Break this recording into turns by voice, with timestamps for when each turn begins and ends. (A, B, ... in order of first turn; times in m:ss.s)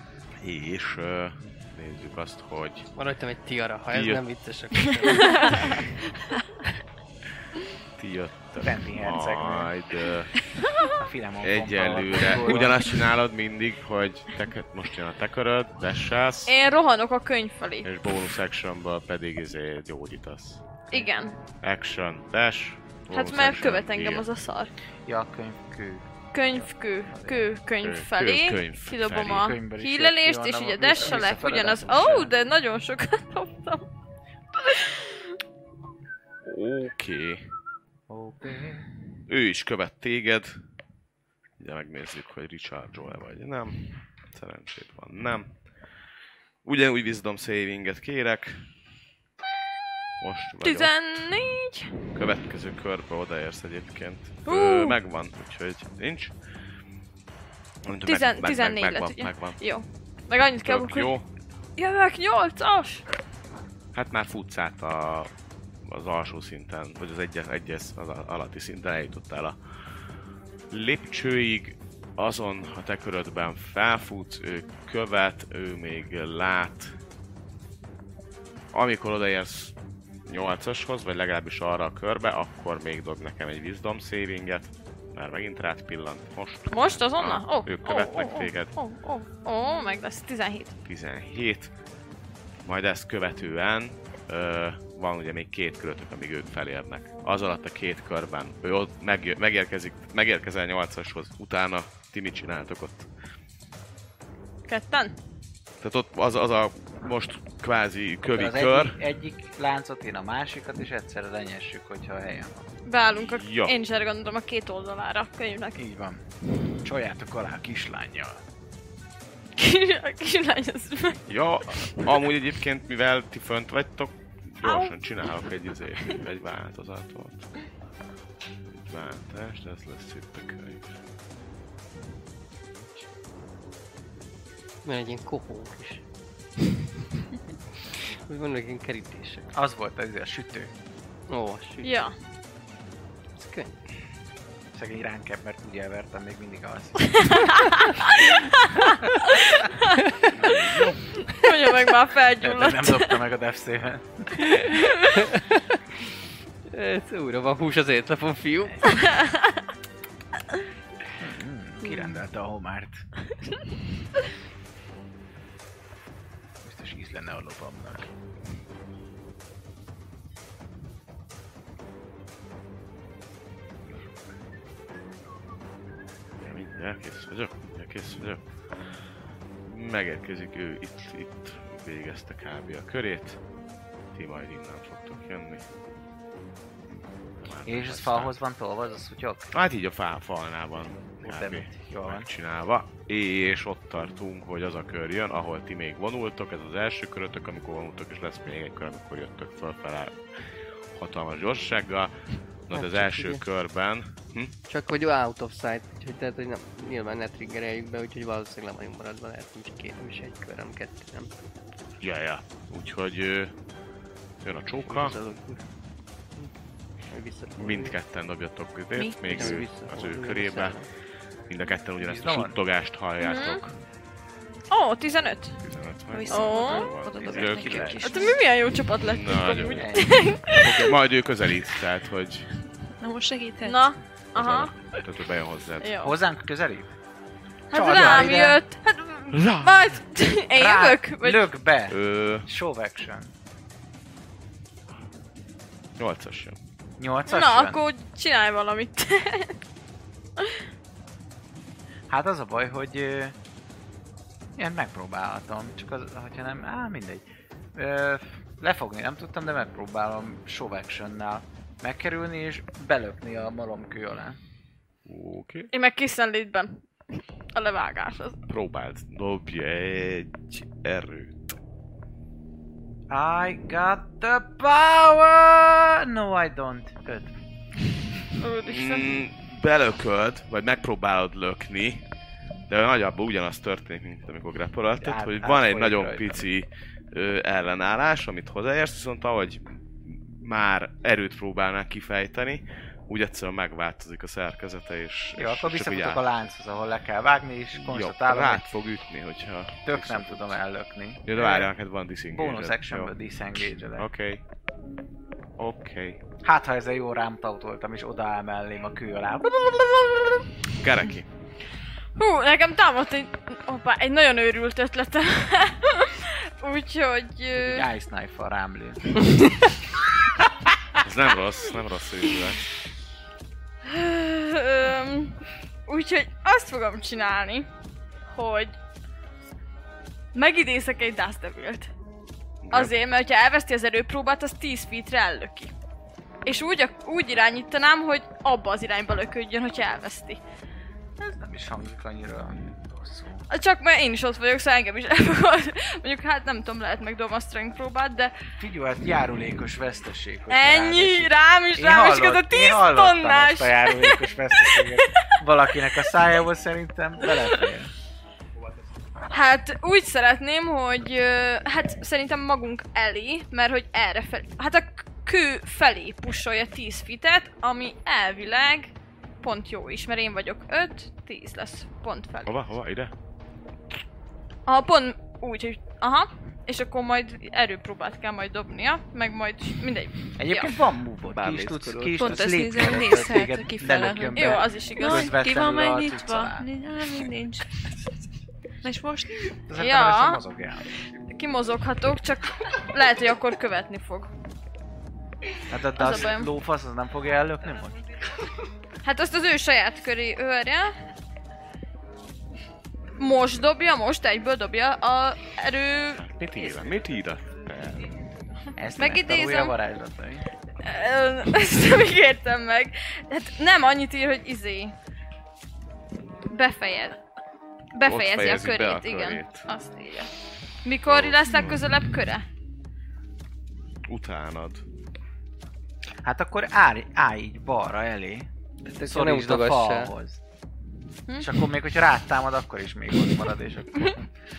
0:00.4-0:02.9 A
0:02.9-0:05.8 B
0:03.9-0:04.2 A
0:05.1-0:05.6 C
0:08.0-0:10.4 A
0:08.6-0:09.7 D
0:10.7-0:11.0 C
0:11.0-0:13.0 D
0:11.4-0:16.5 A
0:16.5-0:17.9 C
0:17.8-0:20.6 A
0:20.9-0:21.4 C
0:21.6-0:24.2 A
0:23.1-0:24.7 C
0:25.0-0:27.5 D
0:26.3-0:33.9 C
0:27.8-0:29.5 A
0:29.3-0:32.3 D
0:34.5-0:35.3 C
0:36.4-0:37.5 A
0:38.1-0:38.8 D
0:39.3-0:40.6 A
0:41.6-0:45.5 A
0:46.6-0:48.7 A
0:50.2-0:50.9 A
0:50.6-0:52.0 C
0:52.1-0:56.3 A
0:54.4-0:55.0 C
0:57.8-0:59.6 A
0:58.0-1:01.1 C
1:00.6-1:01.2 A
1:01.8-1:03.0 C
1:03.9-1:05.3 A
1:05.8-1:09.6 A
1:10.7-1:17.0 A
1:18.7-1:19.7 A
1:20.2-1:28.7 A
1:26.7-1:30.8 C
1:30.8-1:31.7 A
1:32.6-1:43.1 A
1:44.7-1:45.2 C
1:45.8-1:49.0 A
1:48.3-1:52.7 D
1:52.8-1:55.8 C
1:53.1-1:53.7 A
1:55.8-1:58.4 D
1:59.6-2:01.2 C
2:01.3-2:07.5 A
2:04.6-2:04.9 C
2:08.7-2:11.0 A
2:14.8-2:16.0 B
2:18.2-2:19.5 B
2:19.5-2:20.7 D
2:21.3-2:22.0 B
2:21.8-2:22.1 C
2:23.4-2:23.7 B
2:24.7-2:27.6 D
2:27.1-2:30.5 C
2:30.4-2:31.0 A
2:31.2-2:33.2 C
2:32.4-2:34.6 D
2:34.4-2:35.6 B
2:36.7-2:39.0 B
2:38.9-2:39.6 C
2:41.2-2:43.1 D
2:46.6-2:48.1 D
2:56.4-2:58.4 A
2:59.6-3:03.4 A
3:04.1-3:05.6 A
3:06.9-3:08.4 A
3:07.6-3:09.5 D
3:09.5-3:20.2 A
3:11.2-3:12.3 D
3:20.9-3:22.2 A
3:22.7-3:24.5 A
3:22.7-3:23.4 B
3:24.7-3:31.3 B
3:32.0-3:33.5 A
3:34.4-3:35.2 A
3:34.8-3:35.6 B
3:37.1-3:38.0 B
3:37.6-3:40.8 A
3:39.0-3:39.6 E
3:39.3-3:40.9 B
3:41.5-3:43.8 A
3:42.0-3:42.5 D
3:43.2-3:43.6 C
3:44.7-3:45.6 C
3:45.6-3:48.3 A
3:46.1-3:48.4 E
3:46.3-3:47.5 C
3:48.0-3:51.0 C
3:49.0-3:49.9 A
3:49.8-3:50.1 D
3:50.5-3:52.5 A
3:53.0-3:53.9 E
3:53.6-3:54.7 C
3:54.3-3:55.9 A
3:55.8-3:56.2 C
3:56.0-3:56.9 D
3:57.7-4:01.5 C
3:57.7-3:58.6 D
3:59.3-4:00.0 A
4:00.5-4:03.3 D
4:01.9-4:02.5 A
4:06.0-4:06.6 A
4:07.0-4:07.8 D
4:07.3-4:09.6 C
4:12.1-4:13.4 D
4:14.6-4:24.4 D
4:25.0-4:25.7 A
4:25.7-4:28.4 C
4:28.5-4:31.6 A
4:33.1-4:37.3 D
4:38.4-4:39.2 C
4:38.6-4:42.0 A
4:42.7-4:56.4 A
4:45.0-4:46.4 D
4:55.4-4:58.7 D
4:57.8-5:00.6 A
4:59.8-5:01.7 D
5:01.2-5:03.1 A
5:02.3-5:04.0 D
5:03.9-5:04.4 A
5:05.6-5:06.2 A
5:06.4-5:10.4 D
5:10.8-5:11.3 A
5:12.2-5:17.9 C
5:17.5-5:19.4 D
5:21.0-5:22.7 A
5:23.8-5:27.7 C
5:28.3-5:28.8 C
5:30.3-5:31.9 C
5:32.6-5:32.9 A
5:32.7-5:35.7 C
5:36.4-5:40.4 C
5:41.2-5:43.4 D
5:43.5-5:48.3 C
5:48.6-5:57.9 D
5:50.5-5:55.4 C
5:57.2-5:57.6 C
5:59.3-6:12.6 C
6:12.4-6:13.1 A
6:14.6-6:20.8 C
6:20.4-6:26.7 D
6:21.3-6:22.2 B
6:22.1-6:27.8 E
6:24.3-6:25.3 C
6:28.8-6:29.5 E
6:29.7-6:30.9 D
6:29.8-6:30.4 C
6:31.2-6:34.3 C
6:35.7-6:38.0 D
6:36.0-6:36.5 C
6:39.0-6:40.9 C
6:43.2-6:46.7 C
6:46.2-6:48.2 A
6:48.8-6:50.5 D
6:49.0-6:49.8 C
6:50.8-6:54.9 C
6:56.5-6:57.2 C
6:57.9-7:00.3 C
6:58.0-6:59.7 A
7:00.8-7:02.4 C
7:01.0-7:01.8 A
7:04.1-7:04.8 A
7:06.2-7:08.5 D
7:08.8-7:10.1 B
7:09.0-7:10.4 D
7:11.3-7:11.6 C
7:11.4-7:14.3 D